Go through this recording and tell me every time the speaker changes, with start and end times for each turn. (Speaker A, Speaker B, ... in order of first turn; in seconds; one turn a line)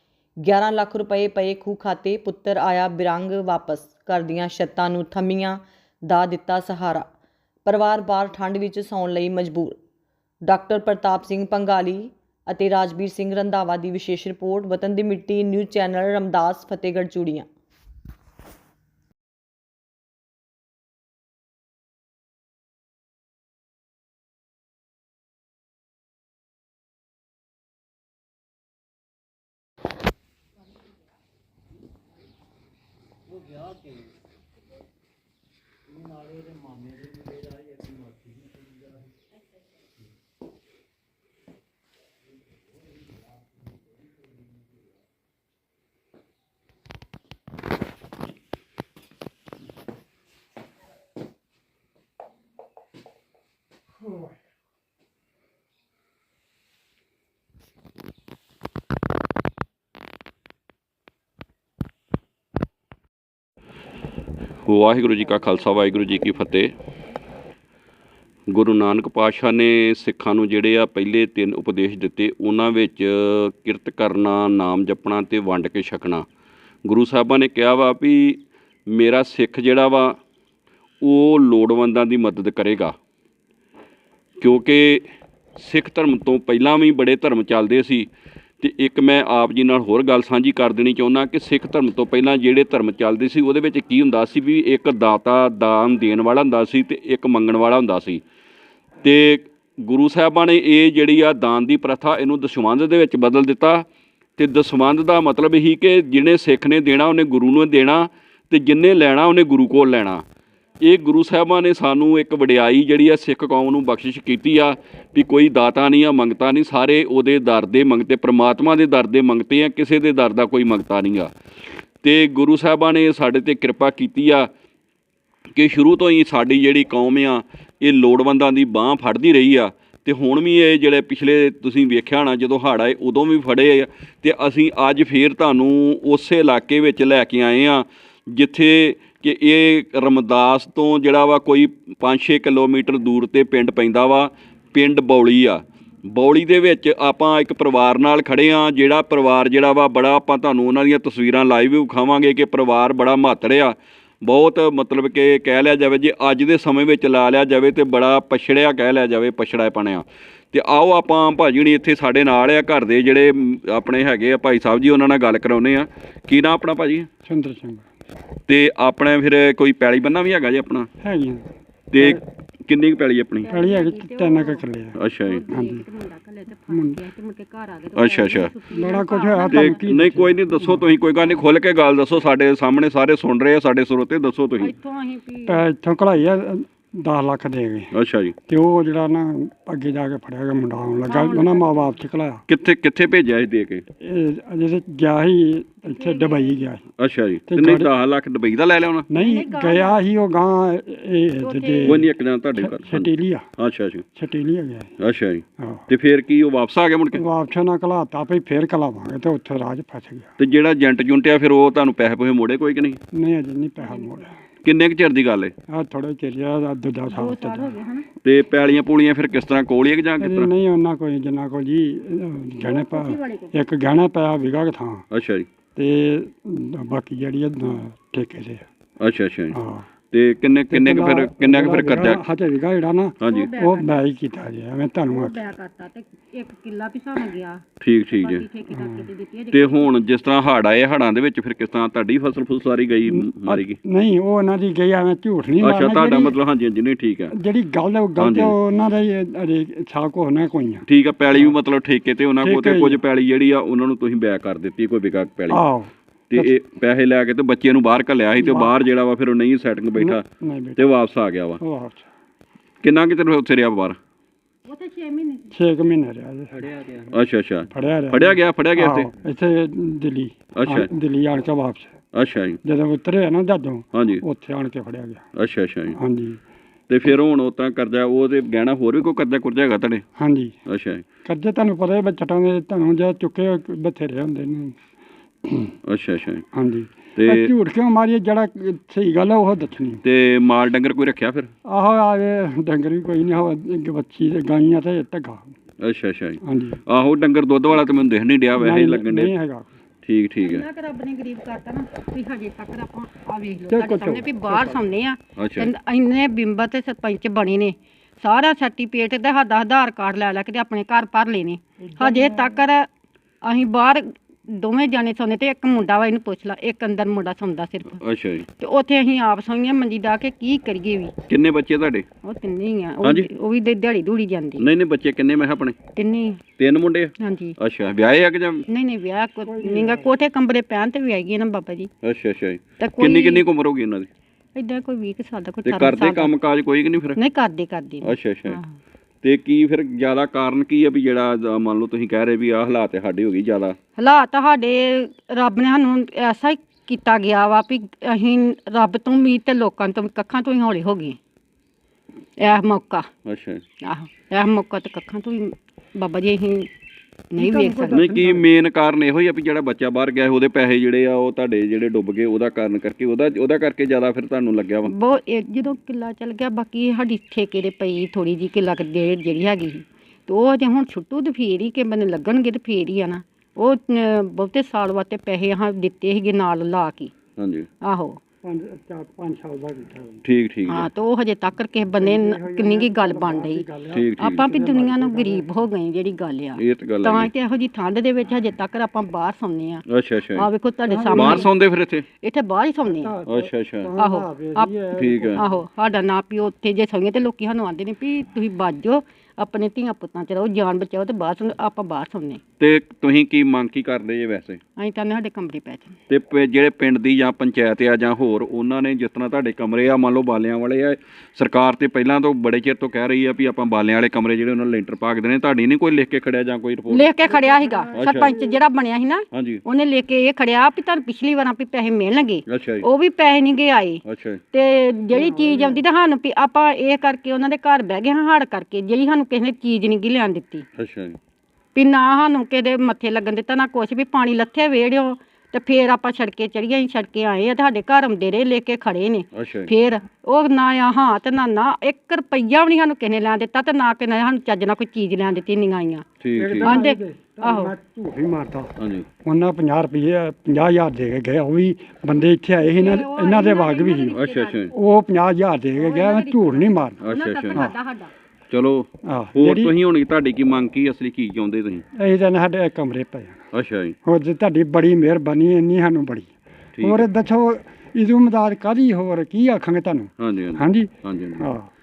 Speaker A: 0.4-7.1
Speaker A: 7.6-9.8
Speaker A: 10.5-17.5
Speaker B: 64.7-66.7
Speaker B: 68.5-76.2
Speaker B: 76.8-80.2
Speaker B: 81.0-82.9
Speaker B: 84.4-88.1
Speaker B: 88.6-98.2
Speaker B: 99.0-103.8
Speaker B: 104.4-110.2
Speaker B: 110.8-121.3
Speaker B: 122.0-124.5
Speaker B: 125.5-167.1
Speaker C: 167.2-167.8
Speaker B: 168.5-170.9
Speaker C: 171.0-172.2
Speaker B: 171.9-173.5
Speaker D: 173.4-179.9
Speaker C: 173.5-175.0
Speaker B: 175.0-175.4
Speaker C: 175.5-175.8
Speaker C: 176.7-177.0
Speaker B: 177.9-178.5
Speaker C: 178.7-180.8
Speaker B: 179.5-184.7
Speaker D: 184.6-185.7
Speaker C: 185.5-187.9
Speaker B: 187.9-188.3
Speaker C: 188.5-192.4
Speaker D: 191.0-192.0
Speaker B: 192.5-193.8
Speaker C: 194.0-196.8
Speaker D: 195.8-196.6
Speaker B: 197.0-199.1
Speaker C: 197.5-197.9
Speaker C: 199.1-203.5
Speaker D: 199.1-200.0
Speaker D: 201.4-202.1
Speaker B: 201.8-204.0
Speaker C: 204.2-204.9
Speaker B: 205.0-207.2
Speaker C: 205.6-205.8
Speaker C: 207.1-210.3
Speaker B: 210.4-213.0
Speaker C: 213.1-214.4
Speaker D: 213.8-214.2
Speaker B: 214.6-215.5
Speaker C: 215.7-217.8
Speaker D: 217.1-218.1
Speaker B: 218.2-220.5
Speaker C: 220.2-225.0
Speaker D: 222.6-223.5
Speaker B: 225.1-225.5
Speaker C: 225.7-228.7
Speaker B: 229.0-229.6
Speaker C: 229.5-229.9
Speaker B: 230.1-232.2
Speaker C: 230.7-235.4
Speaker B: 233.2-233.5
Speaker D: 233.2-234.0
Speaker D: 235.1-240.0
Speaker B: 237.8-238.4
Speaker C: 238.8-239.0
Speaker B: 239.5-243.8
Speaker C: 243.1-246.3
Speaker B: 245.6-247.3
Speaker C: 247.3-250.8
Speaker B: 248.2-248.5
Speaker B: 250.9-255.6
Speaker C: 252.4-253.0
Speaker C: 255.5-256.5
Speaker B: 256.3-260.2
Speaker C: 258.4-258.8
Speaker C: 259.9-260.8
Speaker B: 260.8-261.6
Speaker C: 261.6-262.1
Speaker B: 262.8-264.0
Speaker D: 264.6-265.5
Speaker C: 265.5-267.0
Speaker B: 267.1-269.1
Speaker C: 267.7-272.0
Speaker B: 270.6-270.9
Speaker B: 272.1-272.6
Speaker C: 272.6-275.2
Speaker B: 273.9-274.2
Speaker B: 275.4-276.0
Speaker C: 275.9-276.4
Speaker B: 276.9-280.0
Speaker C: 280.2-280.6
Speaker B: 280.7-281.0
Speaker C: 281.2-284.8
Speaker C: 285.4-285.7
Speaker B: 285.9-286.4
Speaker C: 286.5-290.0
Speaker B: 287.2-287.5
Speaker B: 290.0-291.5
Speaker C: 291.6-295.5
Speaker B: 295.8-299.3
Speaker C: 296.4-296.8
Speaker C: 298.5-299.7
Speaker B: 300.0-300.6
Speaker D: 300.4-312.9
Speaker C: 303.7-304.8
Speaker B: 305.4-305.7
Speaker C: 311.8-312.6
Speaker D: 313.4-318.0
Speaker B: 318.0-318.4
Speaker D: 318.6-321.1
Speaker B: 321.3-322.1
Speaker D: 322.2-324.7
Speaker B: 323.0-323.3
Speaker B: 324.6-325.8
Speaker D: 325.9-326.4
Speaker B: 326.6-328.6
Speaker D: 327.2-327.6
Speaker D: 328.7-331.9
Speaker C: 329.4-330.1
Speaker B: 332.0-334.1
Speaker D: 332.8-333.4
Speaker D: 334.5-336.3
Speaker B: 335.6-337.2
Speaker D: 337.1-338.7
Speaker B: 338.0-338.6
Speaker B: 339.2-343.8
Speaker D: 344.0-351.2
Speaker D: 352.4-353.1
Speaker B: 353.2-353.6
Speaker D: 353.8-356.7
Speaker D: 357.3-358.1
Speaker C: 357.4-358.4
Speaker B: 357.9-364.9
Speaker D: 364.9-377.1
Speaker B: 377.4-377.7
Speaker D: 377.8-378.2
Speaker C: 378.4-380.2
Speaker B: 380.2-380.9
Speaker D: 380.7-391.6
Speaker C: 382.0-385.5
Speaker B: 383.9-384.5
Speaker B: 386.6-387.3
Speaker B: 389.9-390.5
Speaker C: 390.9-391.5
Speaker B: 391.1-392.1
Speaker D: 392.2-393.1
Speaker C: 392.8-395.6
Speaker B: 393.3-393.9
Speaker D: 393.9-402.4
Speaker B: 395.0-395.4
Speaker B: 402.6-404.6
Speaker D: 404.8-405.9
Speaker B: 406.1-417.1
Speaker D: 416.9-424.0
Speaker C: 417.2-418.6
Speaker B: 417.9-418.3
Speaker B: 419.3-419.6
Speaker B: 422.5-422.9
Speaker B: 424.1-424.4
Speaker D: 424.5-430.6
Speaker C: 425.1-425.8
Speaker B: 430.8-431.2
Speaker D: 431.7-446.0
Speaker B: 439.4-439.7
Speaker B: 446.2-446.8
Speaker C: 446.4-448.7
Speaker D: 446.6-447.7
Speaker B: 448.8-449.1
Speaker C: 449.2-454.2
Speaker D: 452.6-454.7
Speaker B: 454.1-454.7
Speaker C: 454.7-457.0
Speaker D: 455.8-458.1
Speaker B: 457.0-457.7
Speaker B: 458.5-461.8
Speaker C: 459.0-459.7
Speaker C: 461.9-463.4
Speaker B: 463.5-463.9
Speaker C: 464.0-471.7
Speaker B: 466.8-467.1
Speaker B: 470.2-471.4